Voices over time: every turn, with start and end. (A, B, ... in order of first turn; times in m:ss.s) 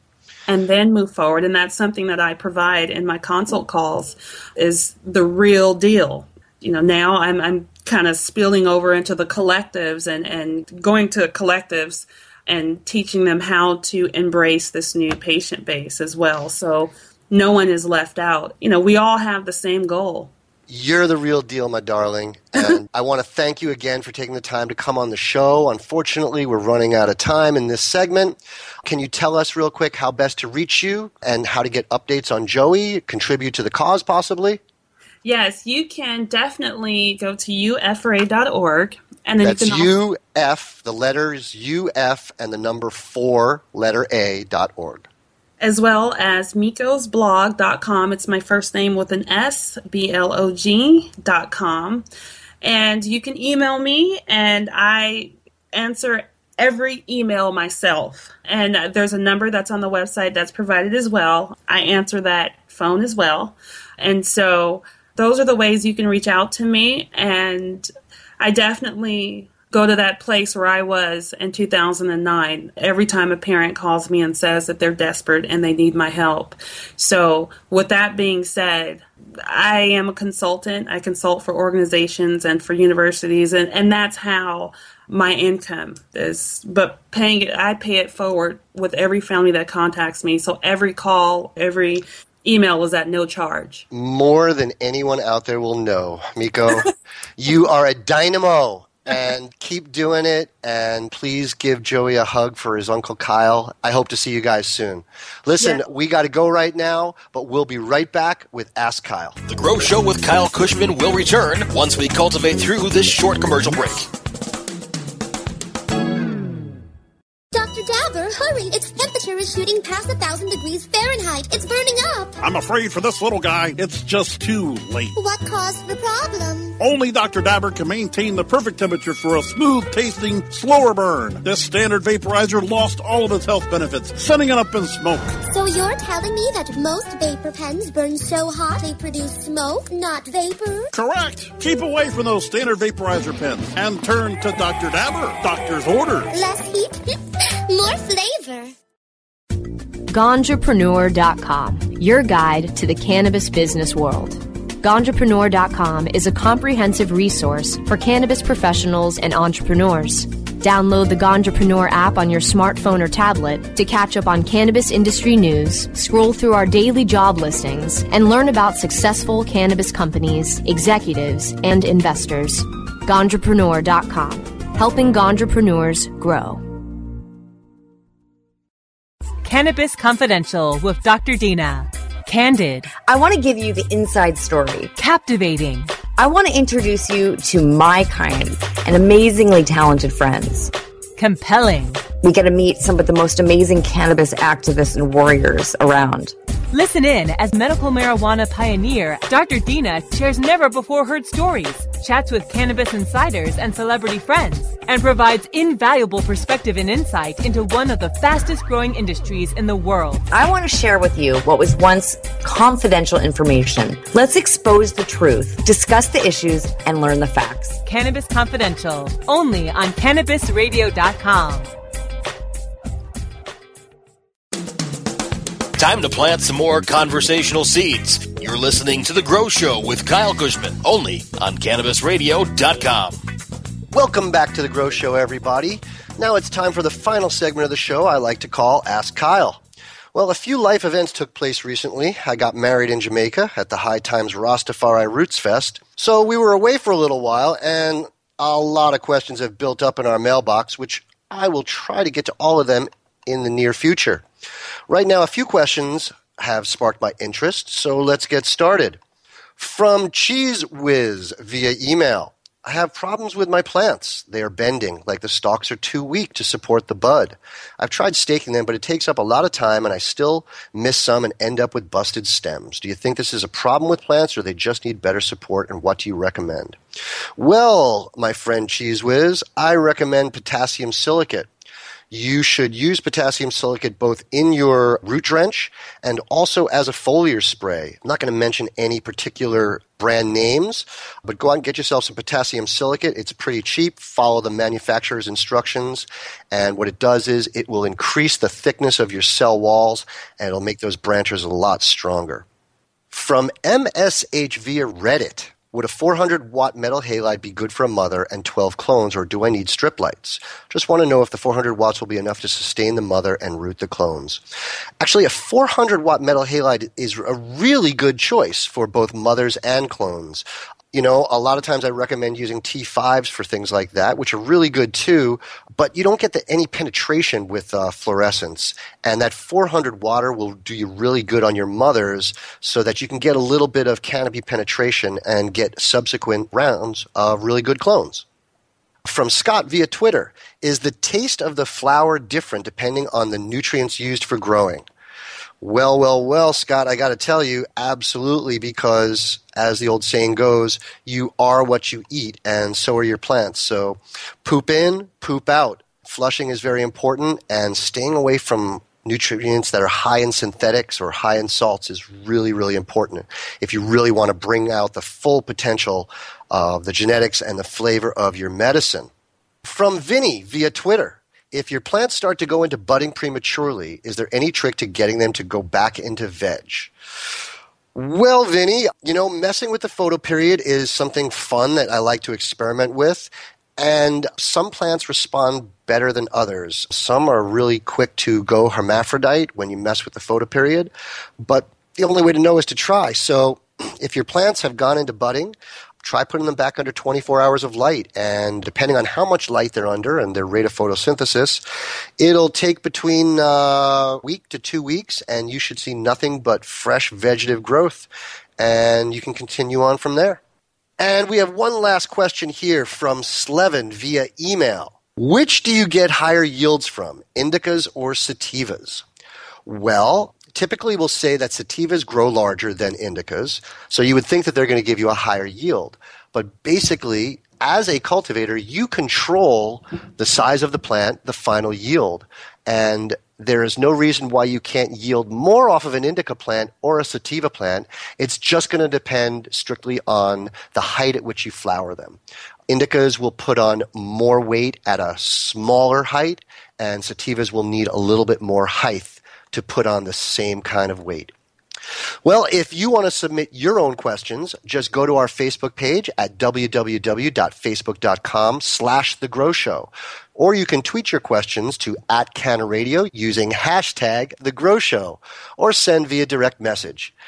0:00.5-0:20.3 A
0:20.7-0:34.6 B
0:35.2-0:39.9 A
0:39.4-0:45.0 B
0:45.6-0:52.0 A
0:52.6-1:33.8 A
1:33.9-1:49.4 B
1:49.5-1:54.1 C
1:57.5-2:02.4 D
2:02.4-2:05.1 E
2:05.2-2:06.7 D
2:06.8-2:15.4 E
2:15.4-2:20.9 D
2:20.9-2:26.3 E
2:26.3-2:28.7 D
2:30.1-2:56.6 F
2:59.4-3:02.9 G
3:02.9-3:04.9 H
3:05.0-3:06.0 G
3:06.1-3:10.7 H
3:11.2-3:12.1 G
3:12.2-3:16.3 H
3:16.7-3:30.2 G
3:30.3-3:37.8 H
3:37.8-3:41.7 G
3:45.8-3:53.2 C
3:53.9-3:59.6 B
4:00.1-4:14.2 B
4:14.9-4:19.0 B
4:19.6-4:36.8 B
4:37.4-4:41.5 B
4:42.1-5:02.4 B
5:03.1-5:14.4 B
5:15.0-5:38.2 B
5:39.0-5:44.9 B
5:45.6-6:09.1 B
6:09.6-6:16.9 B
6:17.9-6:41.6 B
6:42.2-6:50.4 B
6:51.0-6:59.0 B
6:59.6-7:22.2 B
7:22.7-7:31.3 B
7:32.2-7:47.1 B